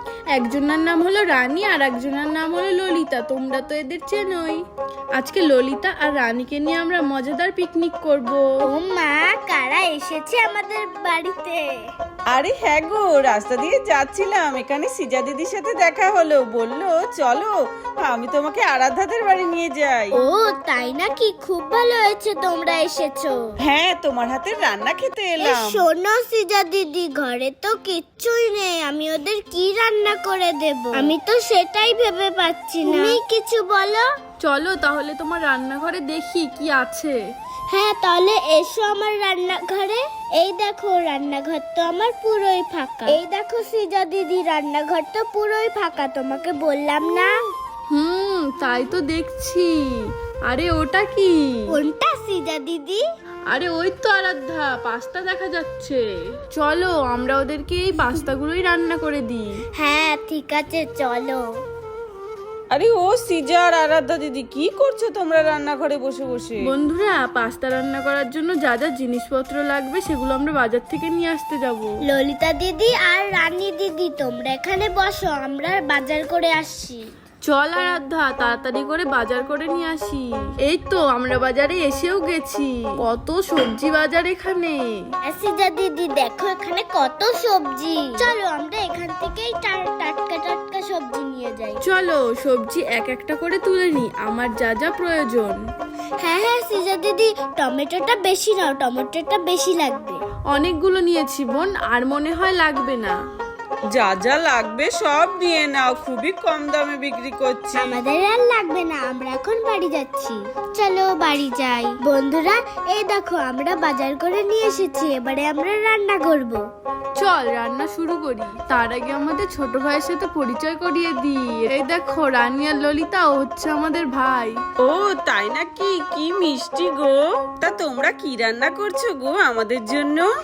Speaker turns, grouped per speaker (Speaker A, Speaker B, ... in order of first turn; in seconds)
Speaker A: 0.3-4.6, 5.2-8.5, 32.9-33.2, 34.4-37.2, 47.9-49.8, 50.5-51.4, 53.5-56.0, 56.5-59.5, 66.7-72.0, 77.5-84.8, 91.8-95.6, 100.5-103.2, 117.2-124.6
Speaker B: 8.6-11.7, 20.1-23.6, 25.4-34.1, 37.7-47.3, 51.7-53.0, 59.8-61.5, 72.0-77.1, 85.2-91.8, 96.2-100.2, 107.8-116.6
Speaker C: 12.3-20.2, 23.6-25.8, 62.7-66.6, 104.0-108.0, 124.8-130.3